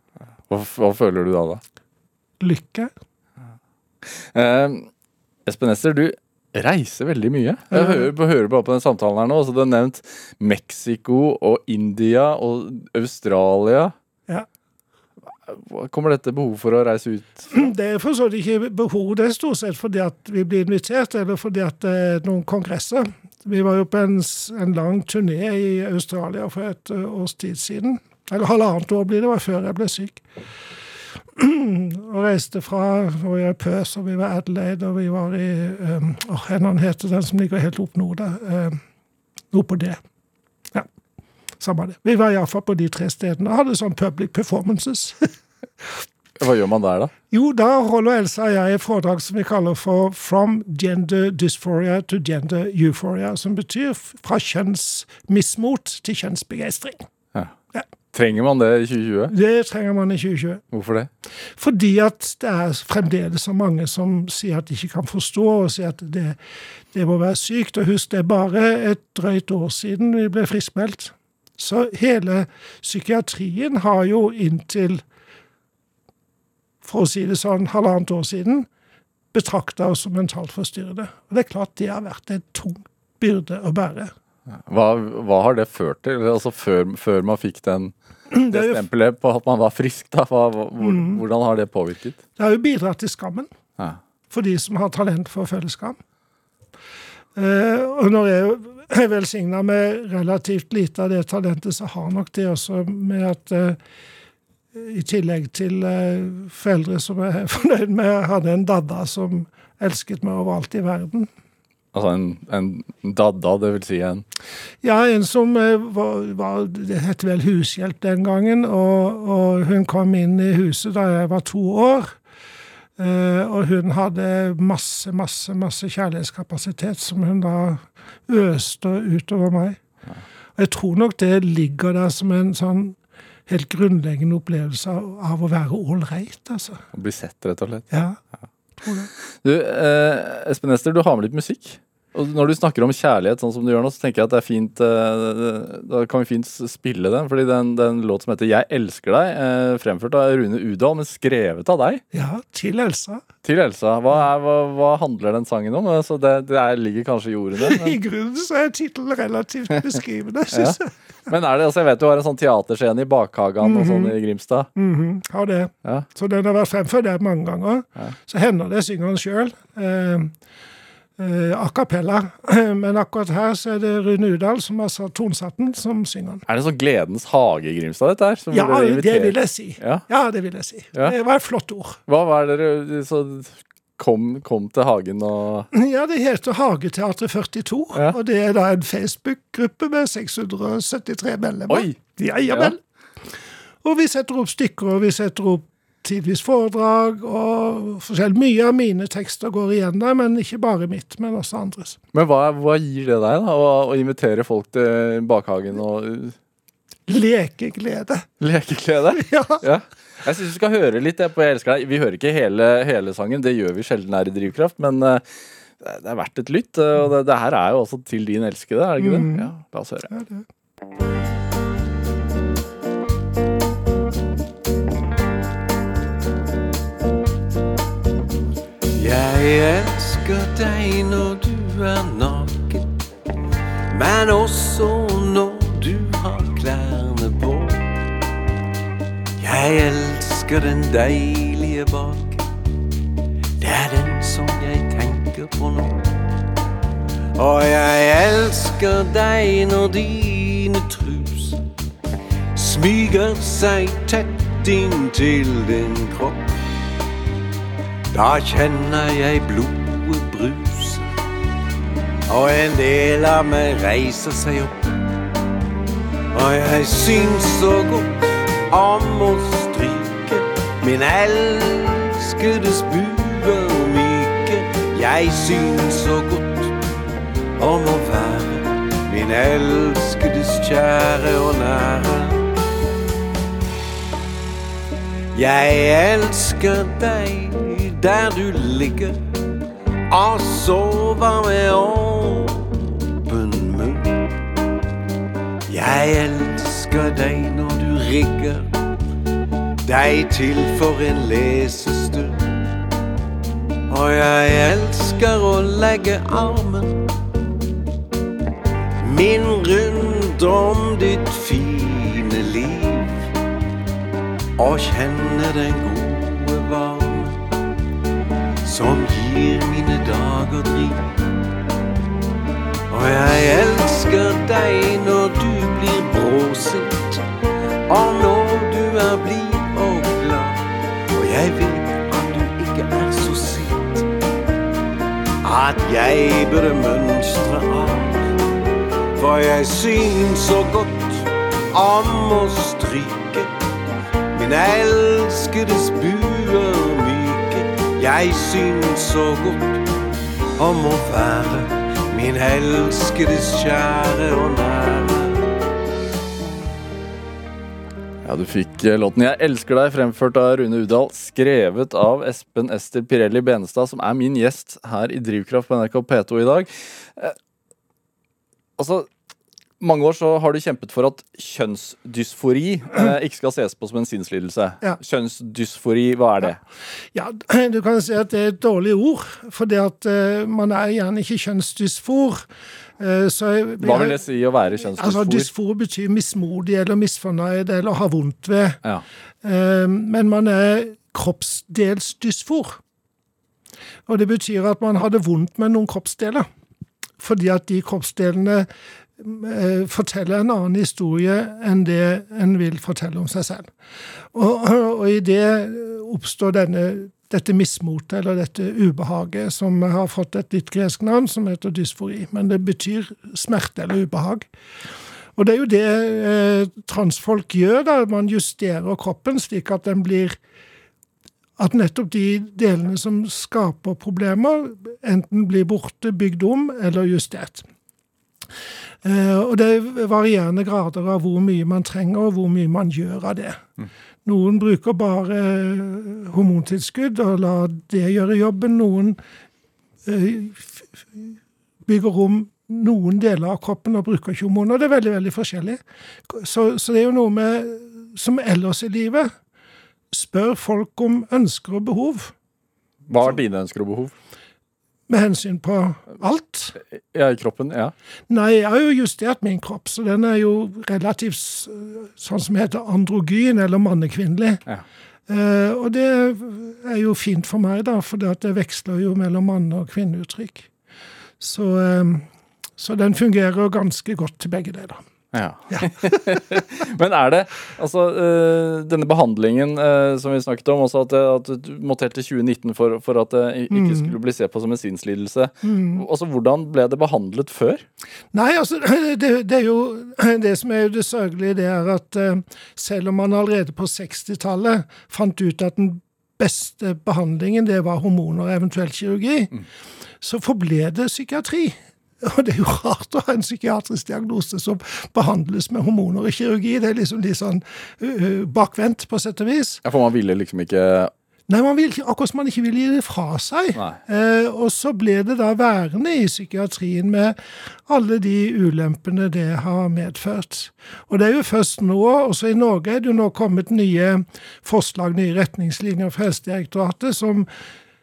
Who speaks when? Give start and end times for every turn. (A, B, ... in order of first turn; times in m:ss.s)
0:00.5-0:01.6 A
0:02.4-0:02.9 B
0:04.0-0:04.9 A
0:05.5-0:13.9 A
0:07.7-0:08.1 B
0:15.4-0:17.7 A
0:17.5-0:30.2 B
0:31.3-0:38.8 B
0:39.5-0:40.0 B
0:41.6-0:45.3 B
0:46.4-0:47.1 A
0:47.3-0:57.1 B
0:58.1-0:59.3 A
0:59.3-1:00.6 B
1:00.7-1:01.1 A
1:01.6-1:06.4 B
1:06.9-1:15.0 B
1:16.8-1:18.7 B
1:19.3-1:24.1 B
1:24.5-1:32.2 A
1:28.3-1:28.8 B
1:30.8-1:31.2 B
1:32.4-1:33.5 B
1:34.3-1:36.0 B
1:37.4-1:43.8 B
1:44.7-1:51.3 B
1:51.9-1:54.2 A
1:54.8-2:02.2 B
2:03.0-2:09.8 B
2:10.6-2:16.8 B
2:16.9-2:17.9 A
2:17.9-2:18.2 B
2:18.8-2:19.1 B
2:19.4-2:32.0 A
2:32.1-2:33.2 B
2:33.4-2:38.0 A
2:37.6-2:40.9 B
2:40.5-2:44.7 A
2:43.6-2:44.2 B
2:44.8-2:50.3 B
2:51.2-2:56.4 B
2:56.5-3:00.0 A
2:58.5-3:02.0 B
3:02.1-3:05.7 A
3:05.7-3:12.8 B
3:11.7-3:12.7 A
3:13.8-3:22.0 B
3:22.1-3:26.4 A
3:27.1-3:28.3 B
3:28.4-3:35.2 A
3:29.1-3:29.6 B
3:35.8-3:40.1 A
3:39.0-3:39.5 B
3:40.1-3:40.5 B
3:48.9-3:52.9 C
3:53.9-3:58.0 C
3:59.4-4:02.5 C
4:03.6-4:06.2 C
4:07.4-4:11.6 C
4:12.6-4:16.6 C
4:18.1-4:21.0 C
4:22.3-4:25.1 C
4:26.3-4:36.8 C
4:37.6-4:42.5 C
4:45.3-4:49.3 C
4:50.1-4:54.4 C
4:55.7-4:58.7 C
4:59.8-5:02.6 C
5:03.9-5:07.1 C
5:09.0-5:13.3 C
5:14.6-5:17.5 C
5:18.6-5:21.2 C
5:22.9-5:27.2 C
5:27.9-5:34.1 C
5:35.4-5:38.4 C
5:39.2-5:43.6 C
5:44.3-5:49.9 C
5:50.6-5:55.5 C
5:58.2-6:07.4 A
6:08.8-6:09.1 A
6:09.8-6:16.6 A
6:17.1-6:22.5 B
6:23.0-6:24.2 B
6:23.8-6:25.5 A
6:25.0-6:28.8 B
6:29.4-6:32.8 B
6:34.1-6:36.5 B
6:37.2-6:43.7 B
6:44.3-6:54.5 B
6:55.4-7:00.4 B
7:01.6-7:07.7 B
7:09.0-7:13.6 B
7:14.2-7:19.2 B
7:20.0-7:29.3 B
7:30.1-7:32.3 B
7:33.1-7:34.1 A
7:35.1-7:36.8 B
7:37.0-7:37.9 A
7:38.3-7:44.6 B
7:45.3-7:50.7 B
7:51.4-7:55.0 B
7:55.3-8:07.8 A
7:55.7-7:56.2 B
8:03.7-8:04.1 B
8:05.6-8:06.0 B
8:08.3-8:19.5 B
8:20.2-8:29.8 B
8:29.8-8:31.1 A
8:31.5-8:47.5 B